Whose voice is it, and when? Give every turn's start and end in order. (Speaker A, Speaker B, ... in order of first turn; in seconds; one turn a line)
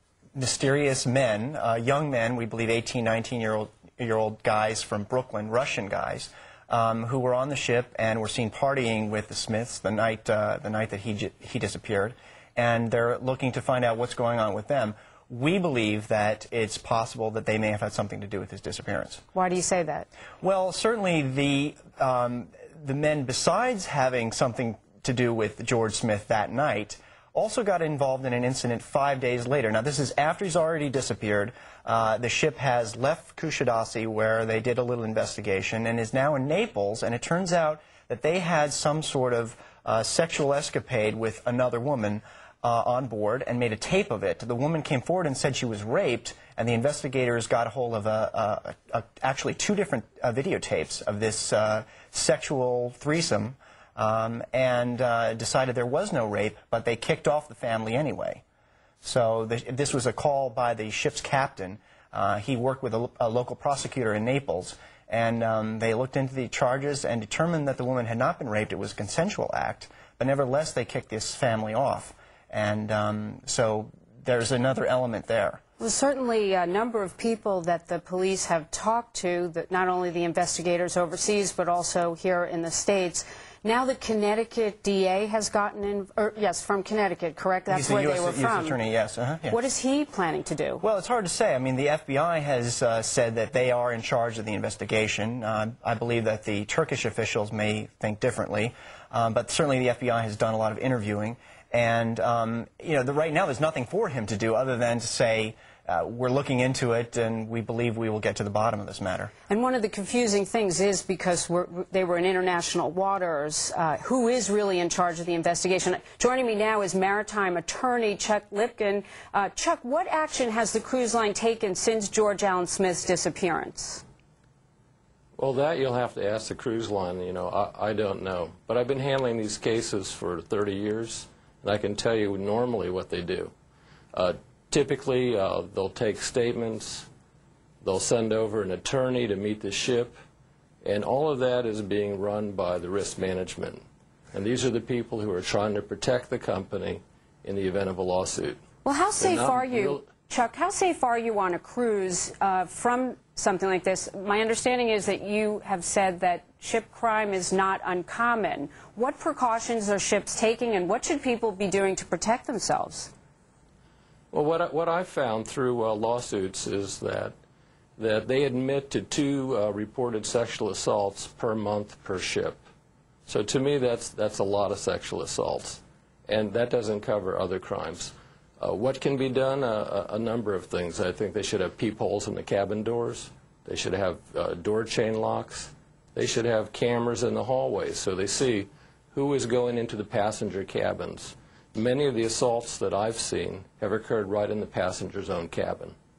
Speaker A: 0.3-19.2
Speaker B: 19.3-20.1
Speaker A: 20.4-58.4
Speaker A: 59.0-75.6
Speaker B: 75.8-88.8
Speaker A: 87.7-89.6
Speaker B: 89.5-90.8
Speaker A: 90.8-109.3
Speaker B: 109.5-124.0
Speaker C: 125.4-133.5
Speaker C: 134.1-137.1
Speaker C: 137.8-140.1
Speaker C: 140.8-148.6
Speaker B: 148.8-163.1
Speaker C: 149.2-150.0
Speaker C: 164.3-167.3
Speaker C: 168.0-172.6
Speaker C: 173.3-195.9